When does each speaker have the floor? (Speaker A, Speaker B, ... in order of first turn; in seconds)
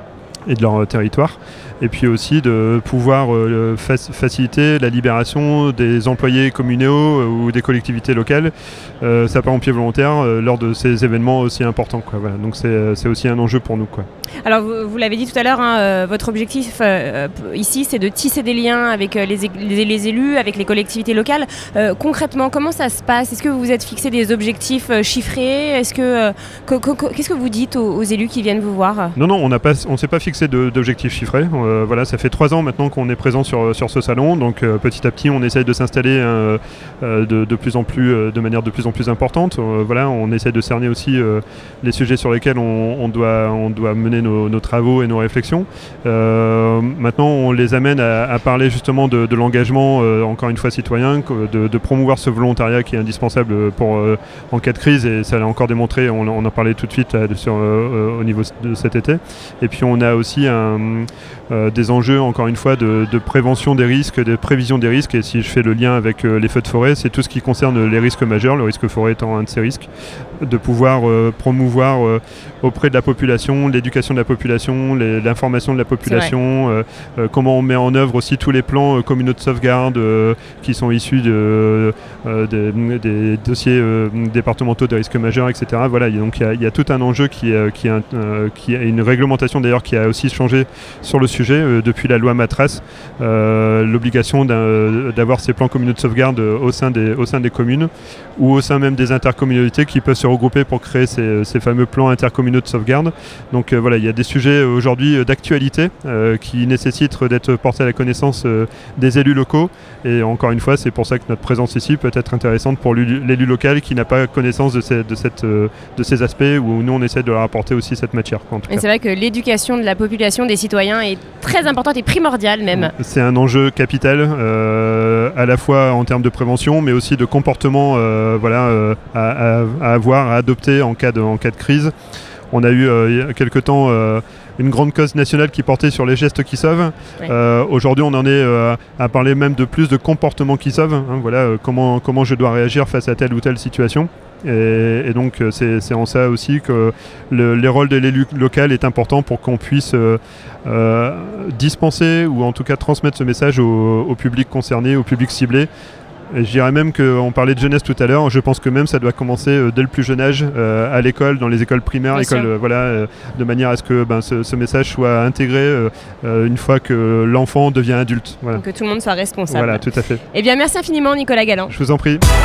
Speaker A: 0.5-14.1, 29.1-69.9, 70.4-118.8, 122.7-131.9, 132.5-155.7, 156.3-168.6, 169.5-170.2, 171.7-172.2
Speaker B: 14.4-29.1, 76.0-76.3, 118.7-122.9, 162.1-162.5, 168.5-171.7